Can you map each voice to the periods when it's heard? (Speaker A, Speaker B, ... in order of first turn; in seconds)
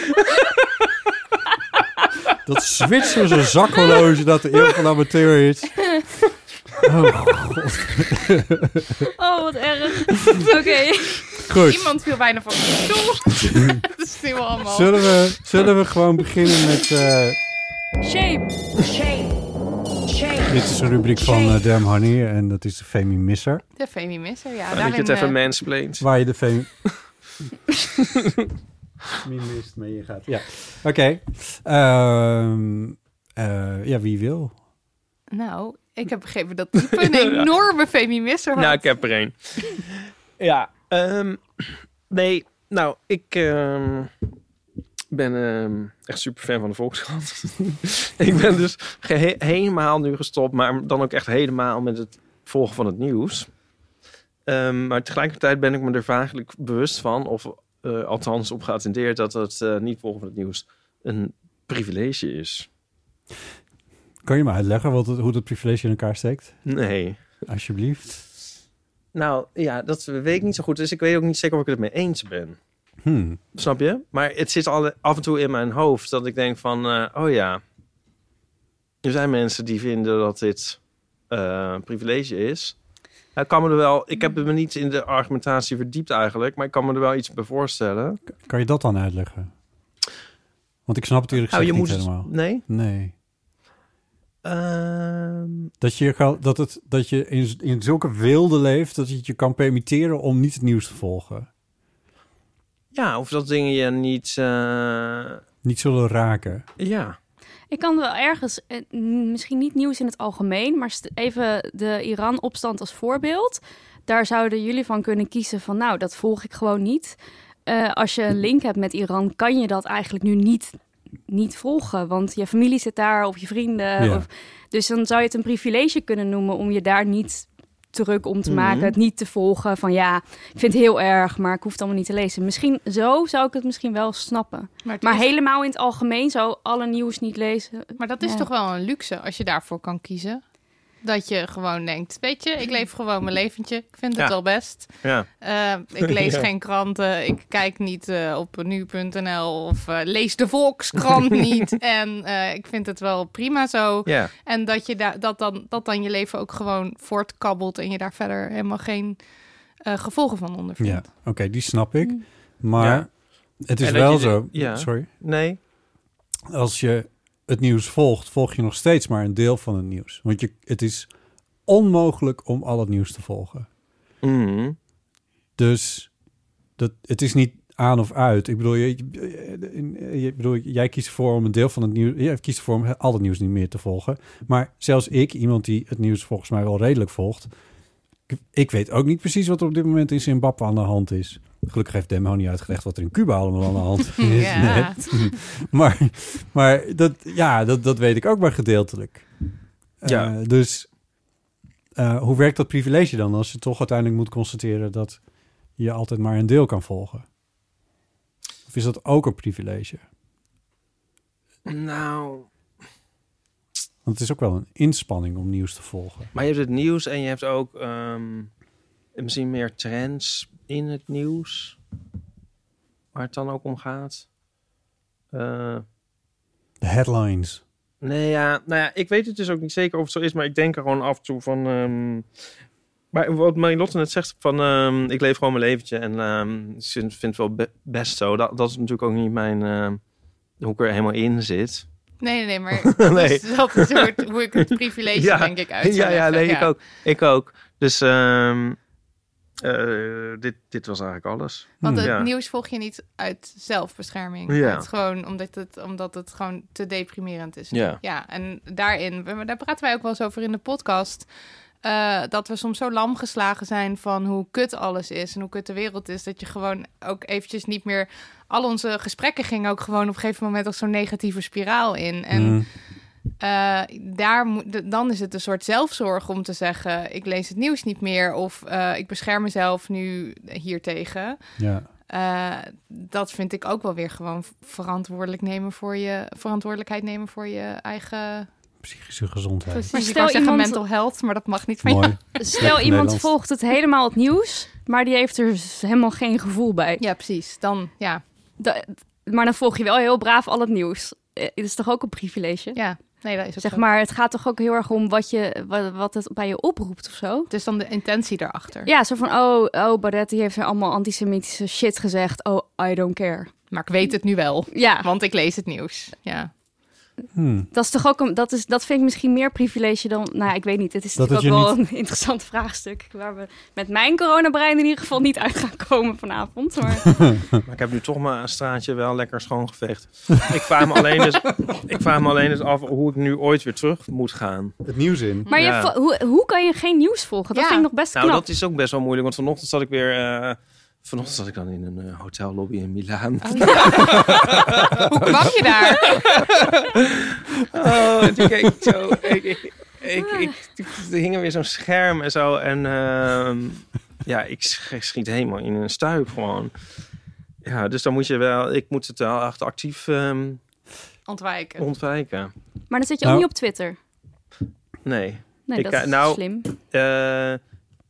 Speaker A: 0.1-0.5, 24.7-26.1, 28.0-28.3, 36.9-37.5, 38.5-44.1, 45.1-53.5, 54.5-62.7, 66.7-67.2, 69.1-72.6, 73.5-77.6, 79.0-80.8, 81.3-82.8, 83.3-88.2, 91.5-92.6, 94.4-95.7, 102.9-105.4, 106.8-107.2, 128.5-128.9, 144.8-145.3, 146.1-146.4, 154.1-154.3, 162.8-163.1, 163.8-165.6, 174.2-174.8, 200.1-200.3, 211.7-212.5, 216.3-218.5, 219.2-221.8, 223.1-224.2, 225.3-225.8, 228.0-232.3, 233.1-240.0, 240.6-241.8, 242.8-244.1, 244.7-248.8, 249.6-252.3, 254.5-254.9, 257.7-258.0, 327.6-334.7, 335.5-335.9, 338.1-356.7, 357.6-360.6, 361.8-362.5, 365.0-367.6
Speaker B: 2.4-5.9, 6.8-9.1, 11.4-11.9, 13.4-13.8, 14.6-17.4, 20.4-23.6, 26.0-26.7, 29.2-34.5, 64.2-66.6, 67.5-68.2, 73.0-73.4, 88.3-89.5, 90.8-93.1, 95.8-101.5, 105.6-106.7, 124.0-124.2, 160.8-163.1, 163.6-165.1, 166.5-171.1, 171.7-173.7, 175.6-176.1, 176.8-187.5, 188.3-199.3, 200.0-200.9, 201.9-205.2, 205.8-207.2, 208.7-210.0, 214.0-216.3, 226.8-227.6, 251.8-252.1, 272.3-272.6, 281.6-281.9, 288.8-289.9, 291.8-293.3, 317.3-317.7, 321.2-321.8, 334.8-335.5
Speaker C: 9.0-11.3, 18.0-19.3, 20.1-20.5, 21.2-21.6, 107.7-120.8, 121.3-138.4, 289.9-290.8, 292.4-297.0, 298.6-302.8, 303.6-307.5, 308.9-313.5, 314.7-315.1, 317.7-327.2, 335.5-338.4, 362.9-364.0, 365.7-366.7
Speaker D: 11.6-15.2, 23.8-25.4, 35.3-38.8, 134.8-135.3, 138.0-140.4, 141.0-159.2, 159.8-161.1, 194.2-195.2, 242.2-246.7, 251.8-261.3, 261.8-272.6, 273.4-281.4, 282.1-288.5, 289.8-292.2, 297.0-298.2, 302.7-303.8, 307.5-308.9, 313.7-316.5, 337.5-337.9, 343.4-344.5, 345.0-346.2, 361.3-361.8